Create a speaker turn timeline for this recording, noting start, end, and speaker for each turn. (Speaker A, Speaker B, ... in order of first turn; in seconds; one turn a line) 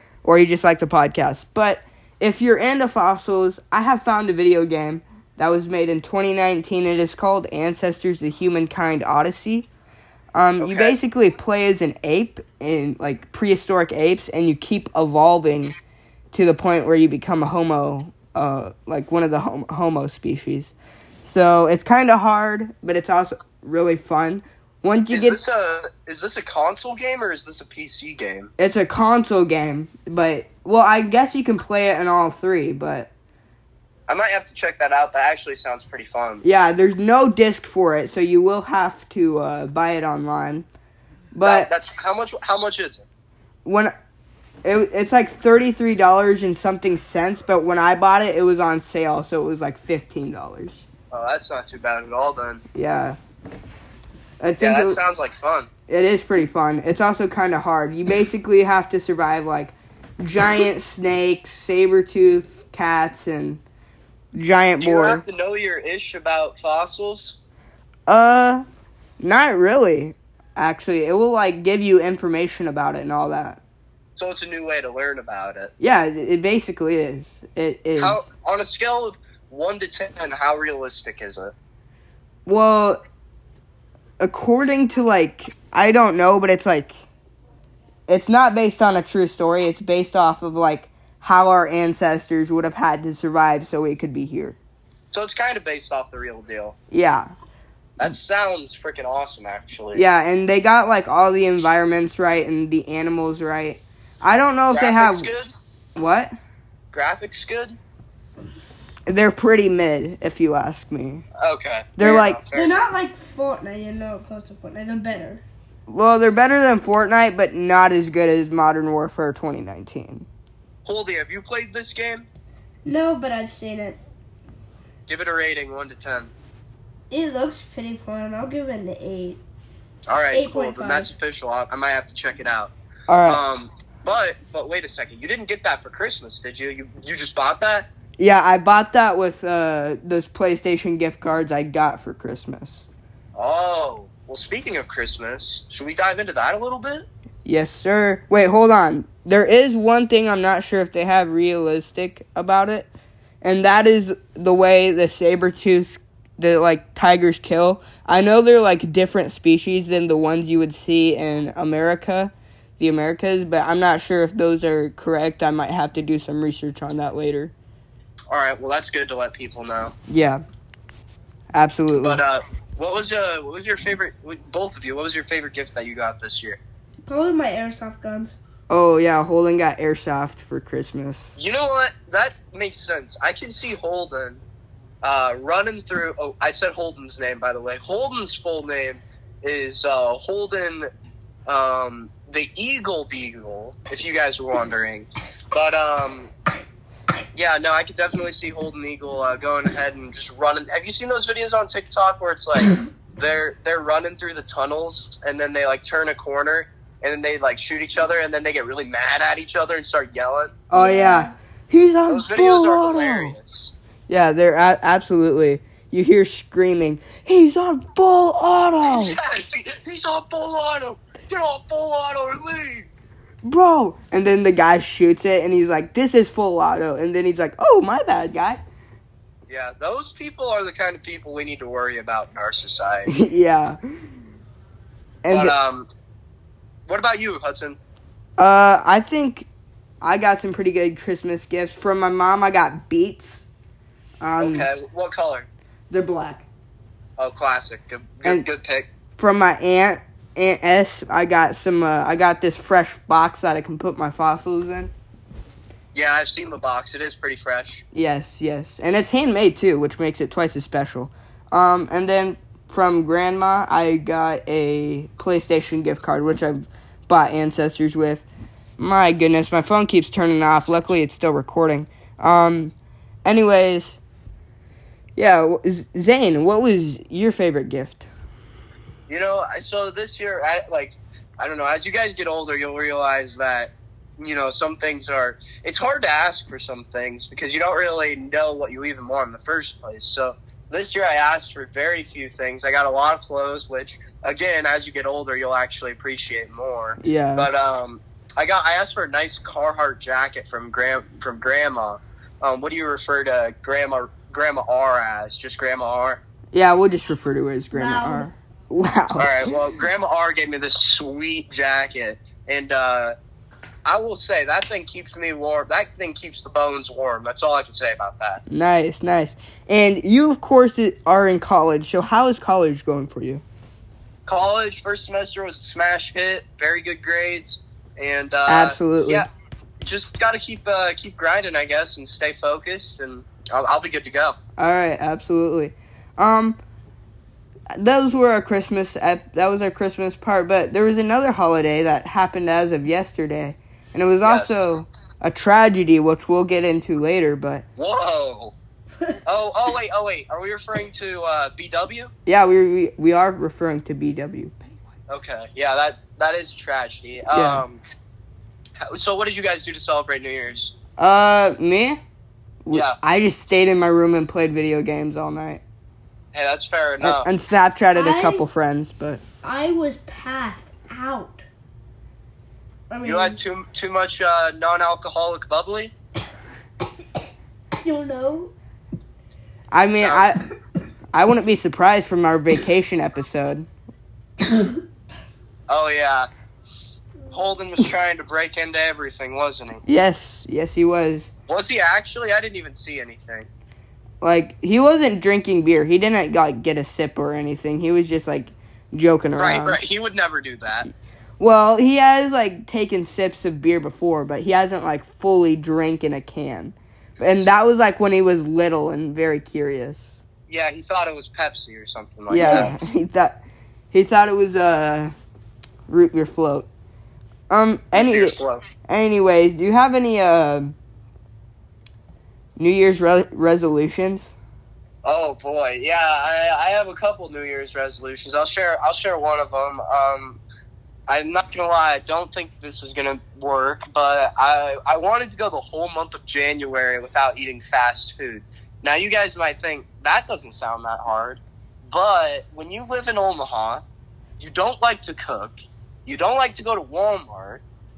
Speaker A: 0.2-9.7
Speaker A: 10.3-15.7
Speaker B: 10.6-11.0
Speaker A: 16.3-20.7
Speaker A: 21.2-25.4
Speaker B: 25.1-28.5
Speaker A: 28.6-33.1
Speaker B: 34.1-36.4
Speaker A: 36.4-40.7
Speaker A: 41.3-41.7
Speaker B: 41.4-43.0
Speaker A: 43.6-43.9
Speaker A: 44.6-50.8
Speaker B: 51.1-52.6
Speaker A: 52.8-53.2
Speaker A: 54.4-55.0
Speaker B: 54.6-55.7
Speaker A: 55.9-63.6
Speaker A: 64.3-65.2
Speaker B: 64.8-67.4
Speaker A: 68.1-68.6
Speaker A: 69.2-73.6
Speaker B: 74.2-75.7
Speaker A: 75.8-78.2
Speaker B: 78.0-81.5
Speaker A: 82.5-83.0
Speaker A: 84.2-86.9
Speaker A: 88.1-94.6
Speaker B: 95.1-96.8
Speaker A: 96.9-97.3
Speaker B: 98.0-100.0
Speaker A: 100.0-105.3
Speaker B: 104.7-105.6
Speaker A: 106.0-106.3
Speaker B: 106.9-107.8
Speaker A: 109.1-111.2
Speaker B: 111.4-112.8
Speaker A: 112.0-112.4
Speaker C: 112.1-115.4
Speaker A: 115.9-120.3
Speaker B: 120.8-122.3
Speaker C: 122.8-124.0
Speaker B: 125.1-126.3
Speaker C: 127.1-129.4
Speaker B: 130.1-132.7
Speaker C: 130.3-131.1
Speaker A: 133.1-133.4
Speaker B: 133.3-137.9
Speaker A: 138.2-142.9
Speaker B: 143.3-147.1
Speaker A: 147.4-152.9
Speaker A: 153.4-167.5
Speaker B: 168.3-169.9
Speaker A: 170.1-170.4
Speaker A: 171.5-172.2
Speaker B: 172.0-176.6
Speaker C: 177.1-178.4
Speaker A: 178.7-181.4
Speaker B: 181.4-184.4
Speaker B: 185.0-190.9
Speaker B: 191.5-196.3
Speaker B: 197.3-210.5
Speaker A: 210.7-213.3
Speaker C: 210.7-211.3
Speaker B: 212.1-213.7
Speaker A: 214.1-219.2
Speaker B: 218.8-222.9
Speaker A: 223.4-228.6
Speaker B: 229.5-233.1
Speaker A: 233.1-233.8
Speaker A: 235.2-235.6
Speaker B: 235.3-235.9
Speaker B: 236.9-237.8
Speaker A: 238.4-239.5
Speaker A: 240.0-243.4
Speaker A: 244.2-244.7
Speaker B: 244.4-245.5
Speaker A: 245.9-246.5
Speaker B: 247.2-248.9
Speaker A: 249.2-254.9
Speaker B: 255.9-257.8
Speaker A: 257.9-268.3
Speaker A: 268.8-272.7
Speaker A: 273.2-274.0
Speaker A: 275.2-278.1
Speaker B: 279.1-306.2
Speaker A: 297.0-297.5
Speaker A: 306.5-309.5
Speaker C: 307.7-308.3
Speaker B: 309.2-313.1
Speaker B: 313.9-318.4
Speaker A: 318.5-323.4
Speaker B: 324.3-329.3
Speaker A: 328.5-329.3
Speaker B: 329.8-334.4
Speaker A: 334.6-336.6
Speaker A: 337.7-347.6
Speaker B: 344.2-344.6
Speaker B: 347.8-348.6
Speaker B: 349.2-352.1
Speaker A: 352.3-354.6
Speaker B: 355.1-357.8
Speaker A: 357.3-357.6
Speaker B: 358.8-360.7
Speaker A: 361.0-362.0
Speaker A: 362.6-365.6
Speaker B: 362.7-363.0
Speaker B: 366.3-367.3
Speaker A: 367.0-369.2
Speaker C: 367.9-368.4
Speaker C: 369.4-371.4
Speaker C: 372.9-373.4
Speaker B: 373.0-375.9
Speaker C: 377.8-378.5
Speaker A: 379.7-380.4
Speaker B: 380.0-380.3
Speaker A: 381.1-383.7
Speaker B: 385.7-386.3
Speaker B: 387.3-389.8
Speaker A: 389.9-391.3
Speaker B: 391.5-393.5
Speaker A: 394.2-399.8
Speaker B: 399.4-400.9
Speaker A: 401.4-410.2
Speaker B: 410.5-412.7
Speaker A: 412.3-413.4
Speaker C: 412.4-412.8
Speaker A: 413.9-415.1
Speaker A: 415.9-416.7
Speaker A: 417.5-420.8
Speaker B: 417.9-418.6
Speaker A: 422.6-424.3
Speaker B: 425.0-430.4
Speaker B: 431.1-443.8
Speaker B: 444.4-447.6